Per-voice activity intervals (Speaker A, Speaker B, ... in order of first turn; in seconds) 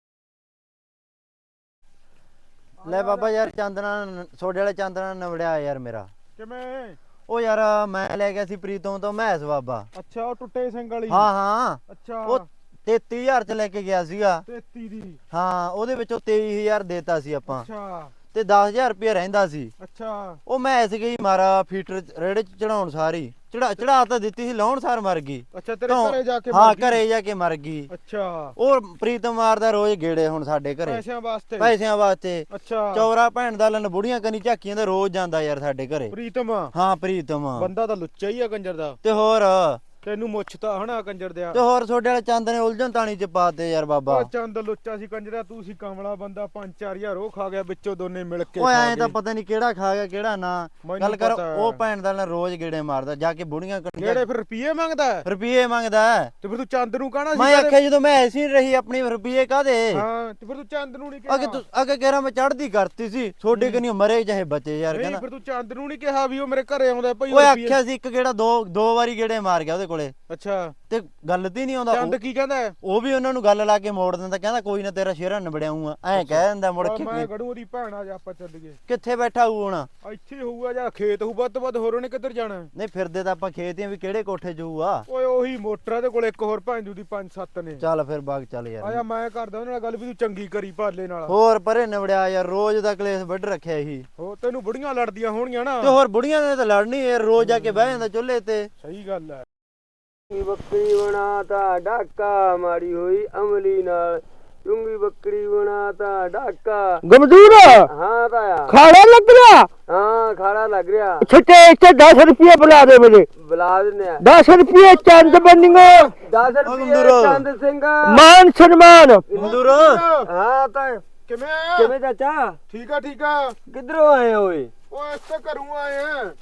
Speaker A: 2.8-3.3, 6.4-7.0, 9.9-11.3, 11.9-12.4, 14.4-15.2, 17.5-18.1, 19.8-20.4, 25.5-27.0, 27.9-28.5, 30.8-31.7, 32.5-33.0, 36.1-36.7, 37.6-39.0, 40.0-41.6, 44.1-49.1, 50.8-51.8, 54.0-55.2, 56.4-57.8, 59.9-61.6, 63.5-63.8, 64.9-67.8, 70.3-70.7, 71.9-72.7, 76.1-78.8, 80.0-82.7, 85.1-87.8, 88.8-91.3, 94.2-95.9, 98.8-99.4, 115.6-116.0, 119.4-120.3, 121.3-121.9, 122.7-123.5, 124.9-126.3
Speaker B: 2.8-6.1, 7.3-9.9, 11.1-14.4, 15.3-17.7, 18.3-19.7, 20.4-27.9, 28.6-31.0, 31.6-36.1, 36.7-37.7, 39.0-39.8, 41.5-44.3, 48.6-54.2, 55.2-56.3, 57.3-60.0, 61.3-65.2, 67.3-70.1, 70.9-72.2, 72.8-77.3, 78.9-79.9, 82.7-85.0, 87.8-89.0, 91.3-94.1, 95.8-98.7, 116.6-117.4, 119.3-120.0
Speaker C: 100.3-107.0, 107.9-108.8, 109.9-111.2, 113.4-114.2, 114.8-115.6, 116.2-118.2, 119.3-119.6, 120.2-121.0, 121.8-122.6, 123.7-124.7
Speaker D: 107.0-107.9, 108.7-109.7, 111.2-113.3, 114.2-116.1, 118.0-119.2